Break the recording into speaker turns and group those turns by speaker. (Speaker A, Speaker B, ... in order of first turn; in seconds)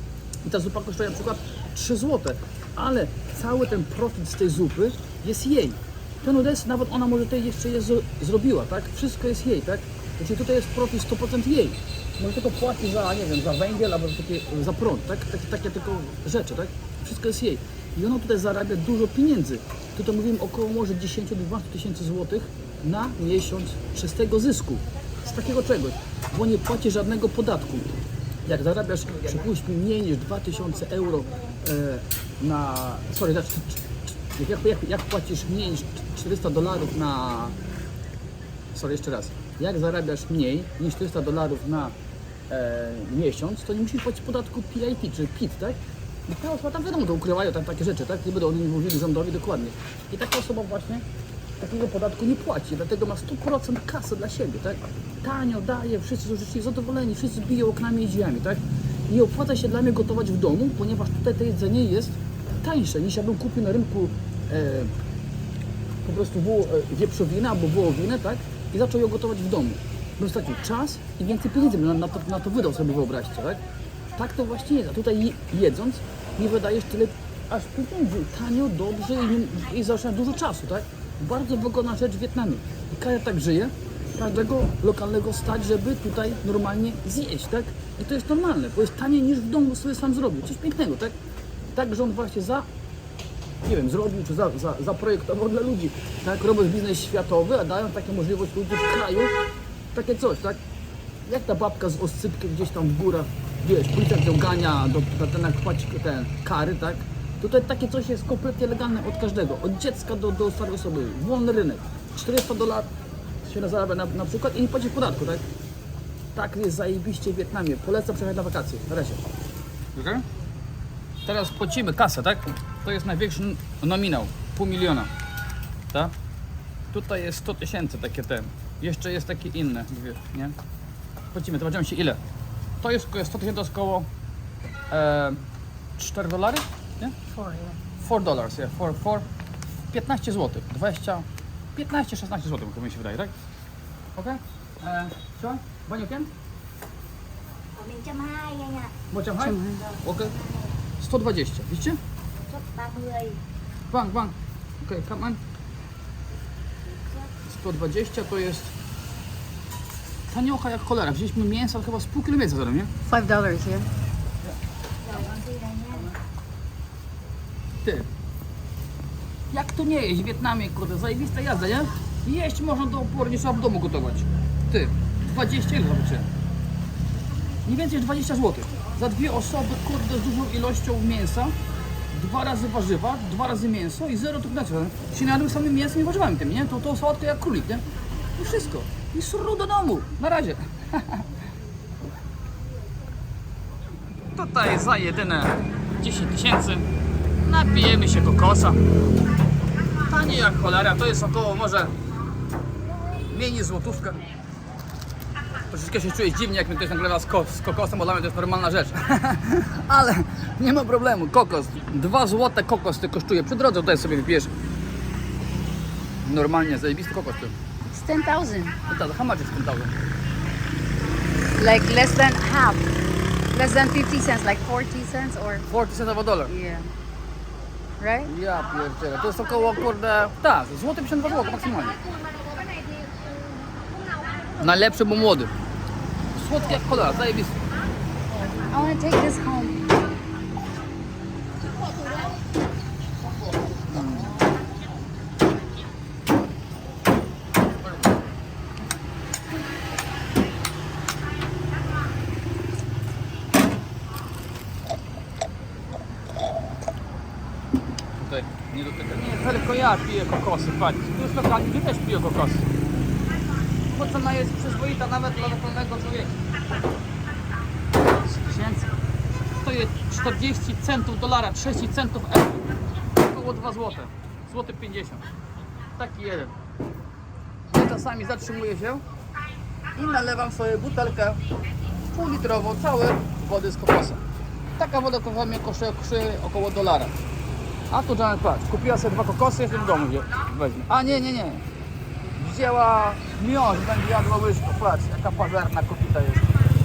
Speaker A: 0.4-37.6, 38.7-42.0, 42.5-51.0, 51.6-64.9, 66.0-73.6, 74.1-91.2, 91.7-92.7, 93.6-99.3, 99.9-100.6, 101.2-112.9, 113.4-115.4, 116.3-119.2, 119.9-120.2, 121.2-125.1, 126.9-130.6, 131.3-132.2, 132.8-134.1, 134.9-135.4, 136.0-137.1, 137.9-139.3, 139.9-143.3, 144.2-146.3, 149.1-150.4, 151.0-152.0, 153.9-155.4, 157.4-158.7, 160.3-162.9, 167.8-168.1, 169.5-176.3, 177.6-181.5, 182.1-191.3, 194.3-196.9, 197.4-198.8, 200.0-201.9, 203.2-204.2, 205.7-214.5, 216.2-217.6, 218.8-219.9, 225.7-226.5, 228.2-232.0, 234.6-235.5, 236.3-237.6, 243.9-244.4, 258.2-262.7, 263.9-266.4, 268.2-268.9, 269.5-275.3, 276.0-276.5, 277.7-279.0, 279.9-281.4, 282.1-284.2, 284.8-287.2, 287.9-291.7, 292.4-296.6
Speaker B: 137.3-137.8, 149.4-149.8, 163.1-163.9, 217.9-218.8, 221.6-222.9, 223.5-225.6, 226.5-226.9, 228.0-228.3, 238.5-239.9
Speaker C: 147.7-148.9, 152.5-153.4, 165.0-166.1